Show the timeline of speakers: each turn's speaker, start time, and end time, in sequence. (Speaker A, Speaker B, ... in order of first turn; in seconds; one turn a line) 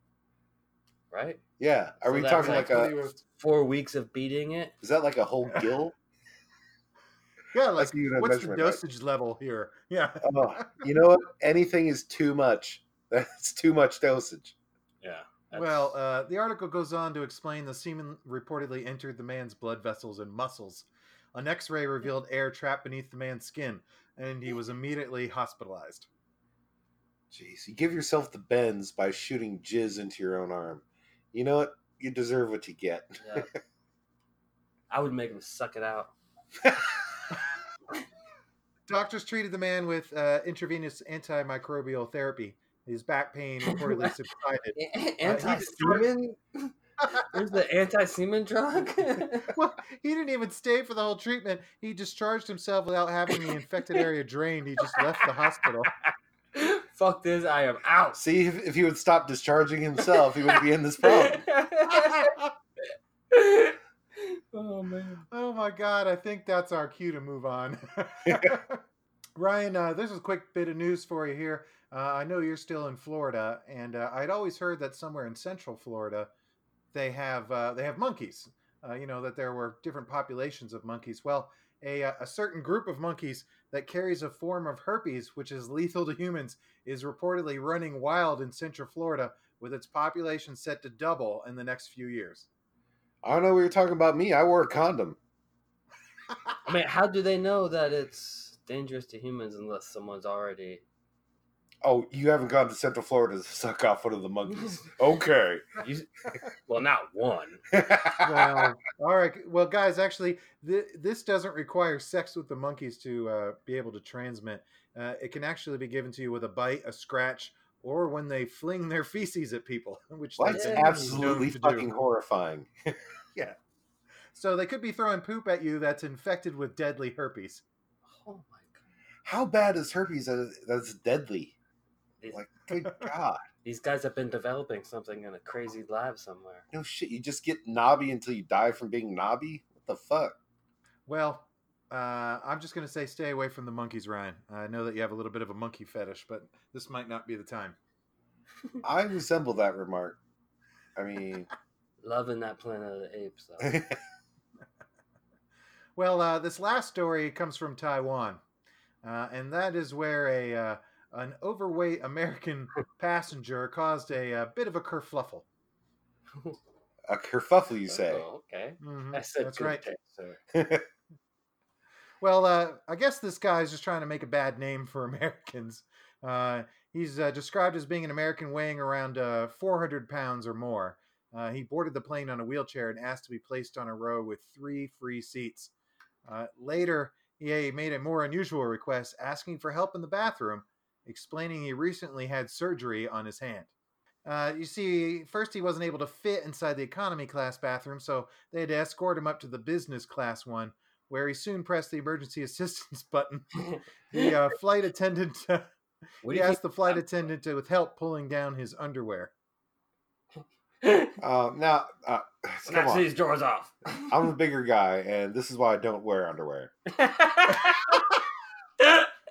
Speaker A: 1.1-1.4
Speaker B: 1.6-2.9
Speaker A: 2.0-4.7
Speaker C: 2.3-3.2
Speaker B: 4.8-5.9
Speaker C: 7.5-10.8
Speaker B: 7.8-8.8
Speaker B: 10.2-14.5
Speaker A: 15.0-15.9
Speaker C: 15.5-26.1
Speaker B: 27.3-33.5
Speaker A: 33.2-33.5
Speaker A: 34.9-36.1
Speaker C: 38.9-46.0
Speaker A: 43.6-44.1
Speaker A: 44.8-49.5
Speaker C: 49.5-55.9
Speaker A: 54.9-58.2
Speaker B: 58.1-61.4
Speaker A: 61.0-62.4
Speaker C: 62.0-62.5
Speaker A: 63.3-65.2
Speaker C: 65.3-68.8
Speaker B: 68.3-68.5
Speaker C: 69.3-76.3
Speaker C: 76.9-92.5
Speaker B: 93.2-95.2
Speaker A: 96.7-100.8
Speaker B: 101.8-105.6
Speaker A: 104.5-104.9
Speaker A: 105.8-106.1
Speaker A: 106.7-107.6
Speaker B: 107.7-108.7
Speaker C: 108.2-121.9
Speaker B: 120.4-123.0
Speaker A: 120.5-121.2
Speaker C: 124.3-127.6
Speaker A: 128.1-128.8
Speaker B: 129.2-131.5
Speaker B: 132.3-133.4
Speaker A: 133.6-136.6
Speaker B: 136.7-140.3
Speaker C: 141.1-147.8
Speaker B: 148.8-150.2
Speaker B: 150.9-151.5
Speaker A: 152.0-153.8
Speaker B: 153.6-153.9
Speaker C: 155.9-158.4
Speaker C: 159.0-165.4
Speaker B: 167.1-168.2
Speaker A: 167.9-170.4
Speaker C: 168.8-169.8
Speaker B: 170.5-170.8
Speaker C: 172.2-185.7
Speaker C: 186.2-193.7
Speaker C: 194.2-203.5
Speaker A: 203.6-204.3
Speaker C: 204.1-205.7
Speaker A: 206.2-207.0
Speaker C: 206.3-209.3
Speaker A: 210.8-211.2
Speaker B: 211.2-213.1
Speaker A: 212.7-214.1
Speaker B: 214.1-216.7
Speaker A: 216.9-218.0
Speaker A: 218.8-219.1